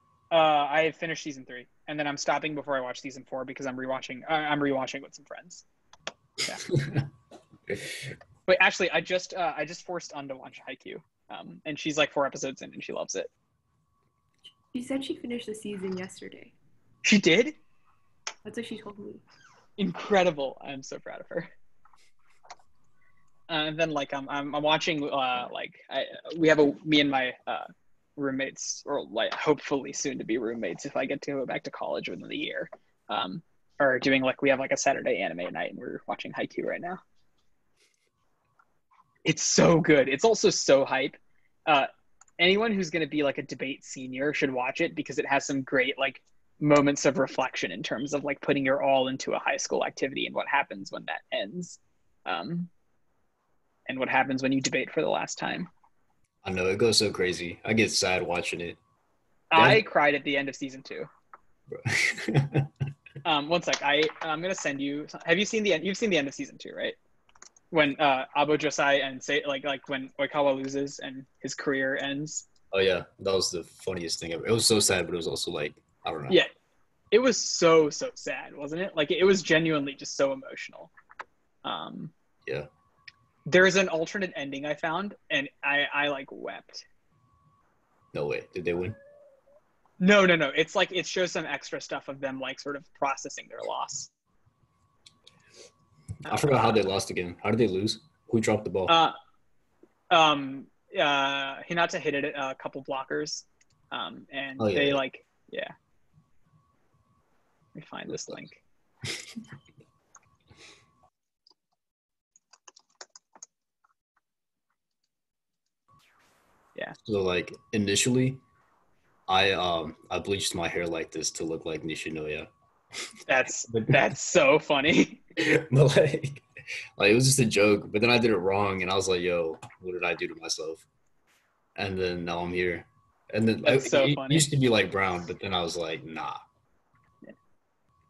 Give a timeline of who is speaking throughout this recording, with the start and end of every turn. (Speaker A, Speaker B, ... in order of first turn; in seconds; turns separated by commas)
Speaker A: 0.3-5.6, Speaker A: 8.5-13.3, Speaker B: 14.7-16.5, Speaker A: 17.0-17.6, Speaker B: 18.4-19.2, Speaker A: 19.8-21.5, Speaker A: 23.5-37.0, Speaker A: 39.2-41.9, Speaker A: 42.4-52.7, Speaker A: 53.9-55.7, Speaker C: 56.4-58.8, Speaker A: 59.5-61.1, Speaker C: 59.5-59.8, Speaker C: 61.7-62.7, Speaker A: 63.2-67.0, Speaker A: 67.7-72.5, Speaker C: 72.7-76.4, Speaker A: 77.1-80.9, Speaker A: 81.7-82.1, Speaker A: 83.5-86.8, Speaker C: 88.1-89.0, Speaker A: 90.0-94.1, Speaker A: 96.3-96.7, Speaker C: 96.3-99.0, Speaker A: 98.9-99.2, Speaker A: 100.1-105.7, Speaker C: 104.6-105.0, Speaker A: 107.8-108.6, Speaker C: 117.0-118.4, Speaker C: 119.3-122.5, Speaker A: 123.3-125.2, Speaker C: 125.4-126.5, Speaker C: 127.0-130.8, Speaker C: 131.8-136.5, Speaker A: 133.7-134.5